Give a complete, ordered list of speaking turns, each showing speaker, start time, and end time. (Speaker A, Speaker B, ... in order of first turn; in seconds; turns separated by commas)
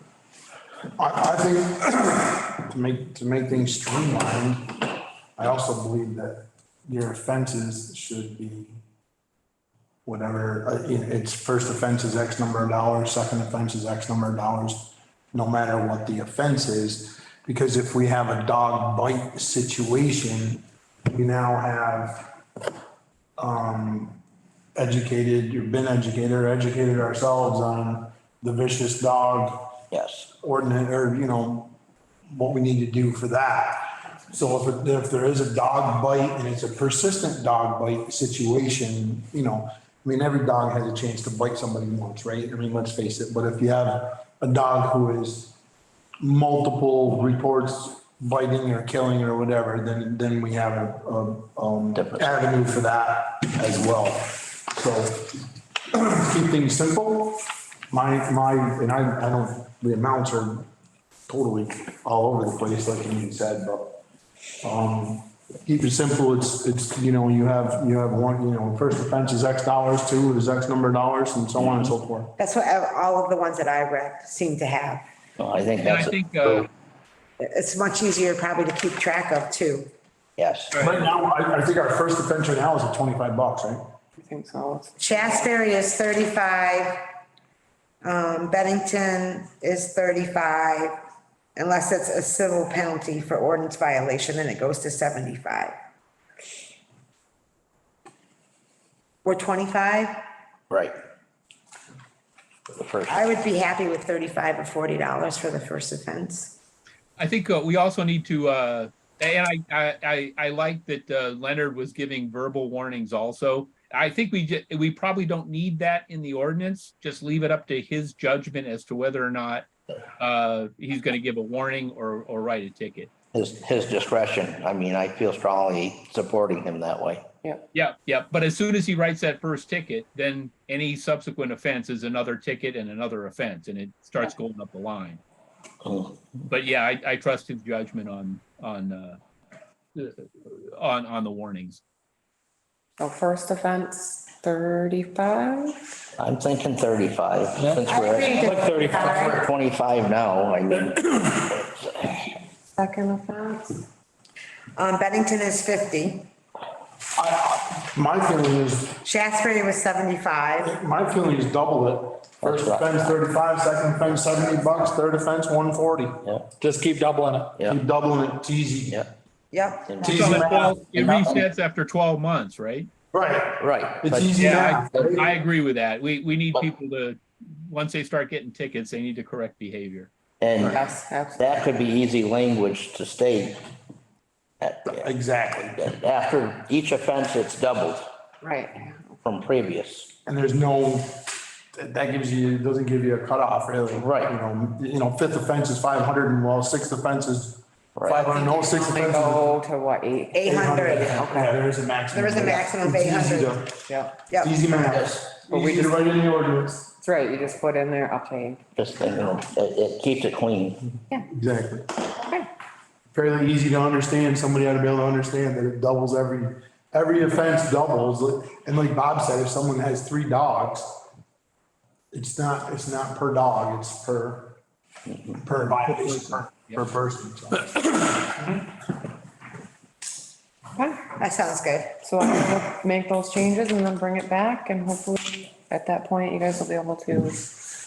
Speaker A: 1.0-4.8, Speaker A: 5.4-8.8, Speaker A: 10.1-22.3, Speaker A: 23.4-24.2, Speaker A: 24.7-29.8, Speaker B: 29.9-30.3, Speaker A: 30.4-31.7, Speaker A: 32.3-45.5, Speaker A: 46.2-55.4, Speaker B: 51.9-52.3, Speaker A: 55.9-60.7, Speaker A: 61.3-64.0, Speaker A: 64.6-72.3, Speaker B: 71.6-71.9, Speaker C: 72.4-75.0, Speaker B: 75.4-76.6, Speaker D: 75.8-76.7, Speaker C: 77.4-79.9, Speaker B: 80.4-80.7, Speaker D: 80.7-81.0, Speaker A: 80.8-83.8, Speaker E: 84.2-85.5, Speaker C: 85.0-87.0, Speaker C: 88.0-91.0, Speaker C: 91.5-95.8, Speaker C: 99.2-100.2, Speaker B: 102.7-103.3, Speaker C: 103.1-106.6, Speaker D: 107.2-119.7, Speaker D: 120.2-123.1, Speaker B: 123.3-127.3, Speaker D: 127.7-135.2, Speaker B: 135.8-136.2, Speaker D: 136.5-139.2, Speaker D: 139.9-141.8, Speaker E: 143.0-145.8, Speaker B: 146.2-152.3, Speaker F: 147.6-149.5, Speaker C: 147.9-149.4, Speaker E: 148.1-149.2, Speaker E: 152.8-153.8, Speaker C: 154.8-156.3, Speaker A: 157.2-159.0, Speaker C: 159.0-160.7, Speaker A: 160.6-166.3, Speaker B: 162.4-163.1, Speaker F: 166.6-167.6, Speaker A: 167.6-169.1, Speaker C: 169.5-170.0, Speaker B: 169.9-170.5, Speaker A: 170.0-171.3, Speaker D: 170.0-172.9, Speaker B: 171.1-171.4, Speaker A: 173.1-175.3, Speaker B: 173.6-175.2, Speaker D: 174.4-180.1, Speaker B: 180.4-180.8, Speaker E: 180.6-181.7, Speaker B: 181.3-183.6, Speaker B: 184.6-185.1, Speaker A: 184.9-185.8, Speaker B: 185.8-188.1, Speaker E: 188.4-189.2, Speaker B: 189.2-190.1, Speaker A: 190.2-199.5, Speaker B: 193.9-194.3, Speaker B: 197.9-198.3, Speaker E: 198.1-200.5, Speaker C: 200.3-201.5, Speaker A: 200.4-203.7, Speaker C: 202.1-203.6, Speaker E: 203.8-204.2, Speaker A: 204.4-206.8, Speaker B: 204.9-205.2, Speaker E: 205.5-206.0, Speaker E: 206.8-208.6, Speaker B: 208.8-210.8, Speaker A: 211.3-212.1, Speaker E: 212.2-212.5, Speaker A: 213.1-221.0, Speaker A: 222.1-224.6, Speaker B: 225.1-225.4, Speaker A: 225.4-228.6, Speaker D: 225.9-226.8, Speaker E: 230.8-231.1, Speaker C: 231.1-232.0, Speaker E: 232.0-237.5